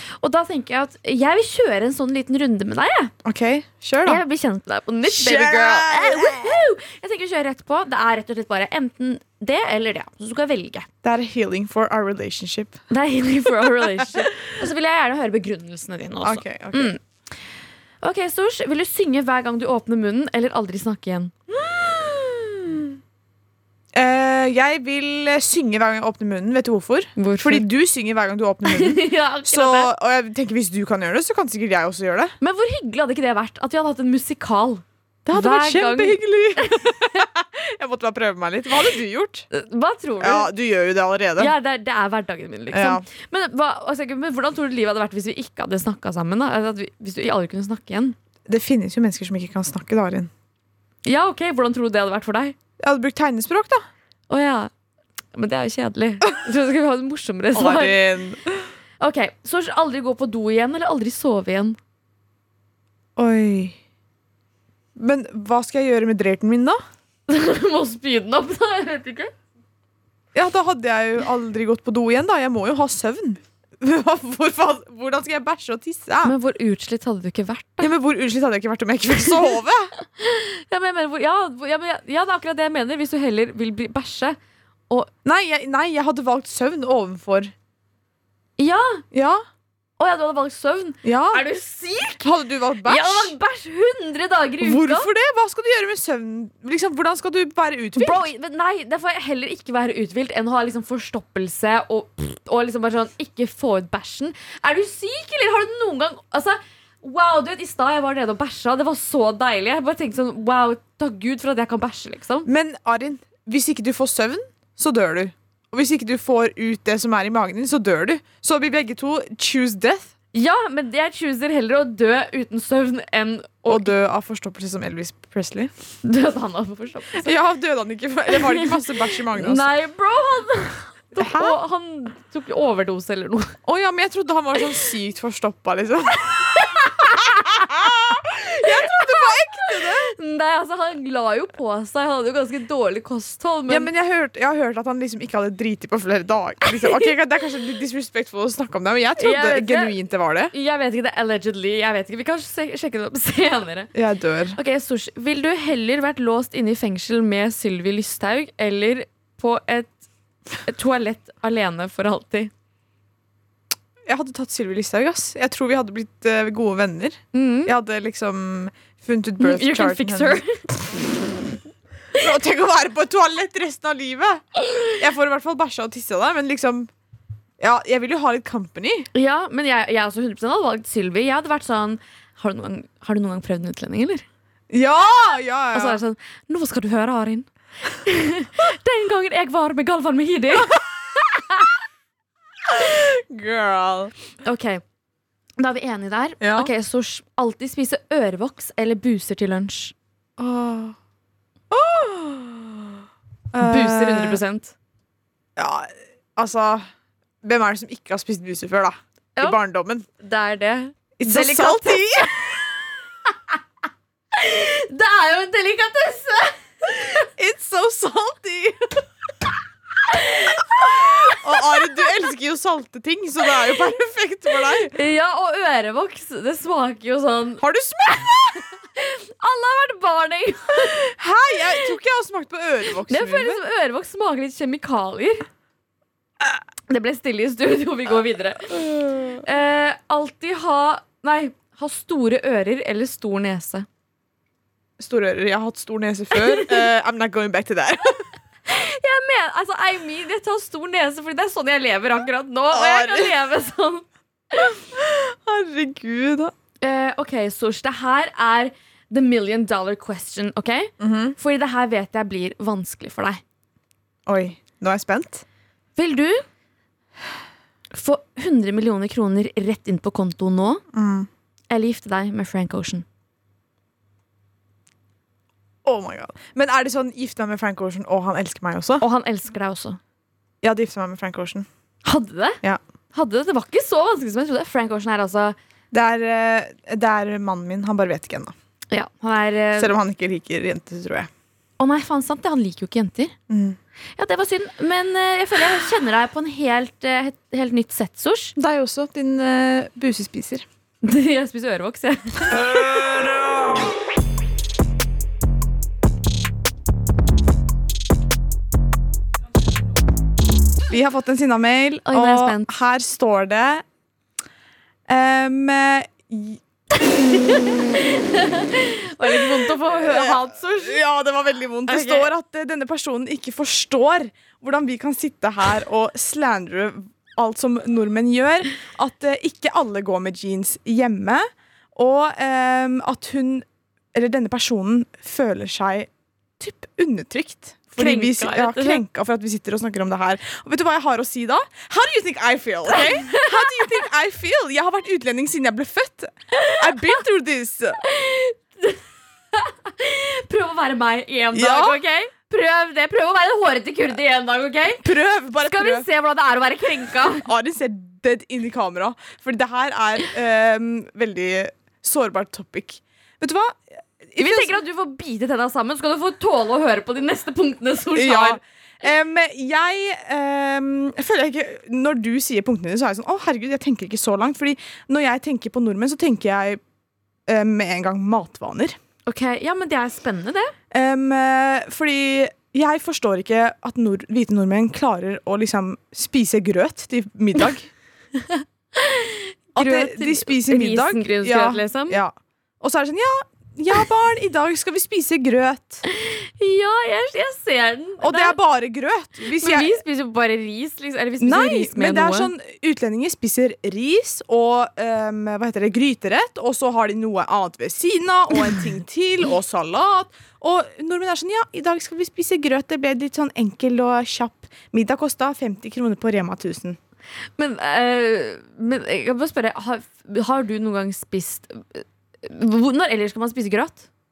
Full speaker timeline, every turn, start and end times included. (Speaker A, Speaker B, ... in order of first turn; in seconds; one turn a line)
Speaker A: 0.2-3.1
Speaker B: 3.2-4.2
Speaker A: 4.0-10.9
Speaker B: 5.1-6.6
Speaker B: 11.0-12.8
Speaker A: 12.9-17.0
Speaker B: 13.8-14.3
Speaker B: 16.2-16.9
Speaker A: 18.0-21.3
Speaker B: 21.5-22.9
Speaker B: 23.9-32.3
Speaker A: 27.1-27.7
Speaker A: 28.6-29.9
Speaker A: 32.4-37.2
Speaker B: 35.2-39.5
Speaker A: 39.5-40.5
Speaker B: 40.2-41.5
Speaker A: 41.4-48.1
Speaker B: 42.7-43.0
Speaker B: 48.5-50.3
Speaker A: 51.0-52.5
Speaker B: 52.8-53.8
Speaker A: 54.3-54.7
Speaker A: 55.3-58.0
Speaker B: 57.5-58.7
Speaker A: 59.0-61.8
Speaker B: 63.2-63.8
Speaker B: 65.0-66.8
Speaker A: 67.3-69.3
Speaker B: 70.3-76.3
Speaker A: 76.2-77.9
Speaker B: 77.8-79.9
Speaker A: 80.1-84.4
Speaker B: 85.2-87.5
Speaker A: 88.6-89.0
Speaker B: 89.1-89.4
Speaker A: 90.0-92.2
Speaker B: 91.0-91.4
Speaker B: 92.2-93.3
Speaker A: 92.8-95.1
Speaker B: 94.6-98.3
Speaker A: 98.0-112.5
Speaker B: 112.5-120.1
Speaker A: 120.3-123.9
Speaker B: 123.7-125.7
Speaker A: 126.0-127.3
Speaker B: 127.2-129.7
Speaker A: 128.3-133.6
Speaker B: 131.2-131.6
Speaker B: 133.6-140.1
Speaker A: 136.5-137.7
Speaker A: 138.6-143.9
Speaker B: 143.7-150.5
Speaker A: 149.2-149.9
Speaker A: 150.5-153.9
Speaker B: 153.9-154.6
Speaker A: 154.5-159.9
Speaker A: 160.6-162.5
Speaker B: 164.1-170.4
Speaker A: 167.3-167.7
Speaker A: 169.4-170.6
Speaker B: 172.1-176.9
Speaker B: 177.6-179.1
Speaker A: 179.1-184.2
Speaker B: 184.7-186.0
Speaker A: 185.7-190.8
Speaker A: 191.3-191.7
Speaker B: 192.7-194.1
Speaker A: 194.4-194.8
Speaker A: 195.6-199.9
Speaker B: 196.4-196.7
Speaker B: 200.4-200.9
Speaker B: 201.7-202.9
Speaker B: 203.5-204.4
Speaker A: 203.6-204.7
Speaker B: 205.6-206.9
Speaker B: 207.4-210.1
Speaker A: 210.2-212.6
Speaker B: 211.2-212.4
Speaker A: 214.3-217.3
Speaker B: 217.3-219.0
Speaker A: 220.1-221.3
Speaker B: 220.7-224.9
Speaker A: 224.9-228.2
Speaker B: 227.6-228.6
Speaker A: 228.9-231.1
Speaker B: 230.7-233.6
Speaker A: 233.1-235.4
Speaker A: 236.9-238.8
Speaker B: 238.7-239.4
Speaker A: 239.4-243.9
Speaker B: 245.0-248.2
Speaker A: 246.3-246.8
Speaker A: 248.7-254.7
Speaker B: 252.7-253.3
Speaker B: 254.8-256.5
Speaker A: 256.8-263.4
Speaker B: 261.0-261.4
Speaker B: 264.3-265.4
Speaker A: 265.9-266.4
Speaker A: 267.9-270.8
Speaker B: 270.9-271.3
Speaker A: 271.7-273.0
Speaker B: 275.8-279.0
Speaker A: 279.0-280.0
Speaker B: 280.6-281.7
Speaker A: 282.0-282.6
Speaker A: 283.1-285.6
Speaker B: 285.9-288.5
Speaker A: 288.9-289.9
Speaker B: 289.8-291.3
Speaker A: 291.8-293.3
Speaker B: 293.5-293.8
Speaker A: 294.2-298.5
Speaker B: 298.6-300.6
Speaker A: 301.0-303.0
Speaker B: 310.9-313.8
Speaker A: 312.1-312.7
Speaker B: 315.1-316.6
Speaker A: 317.1-321.0
Speaker B: 319.2-348.0
Speaker A: 321.9-322.3
Speaker A: 338.0-339.0
Speaker A: 342.9-343.9
Speaker A: 346.5-347.1
Speaker A: 348.0-349.0
Speaker A: 349.5-355.0
Speaker B: 351.5-352.0
Speaker B: 355.0-356.1
Speaker A: 355.6-357.5
Speaker B: 357.3-364.8
Speaker A: 364.4-368.6
Speaker B: 368.1-376.8
Speaker B: 377.5-378.9
Speaker A: 379.2-380.7
Speaker B: 380.9-387.9
Speaker A: 388.4-392.2
Speaker B: 389.8-396.0
Speaker A: 396.1-398.6
Speaker B: 398.2-400.0
Speaker A: 399.6-402.5
Speaker B: 401.4-417.0
Speaker A: 417.6-424.1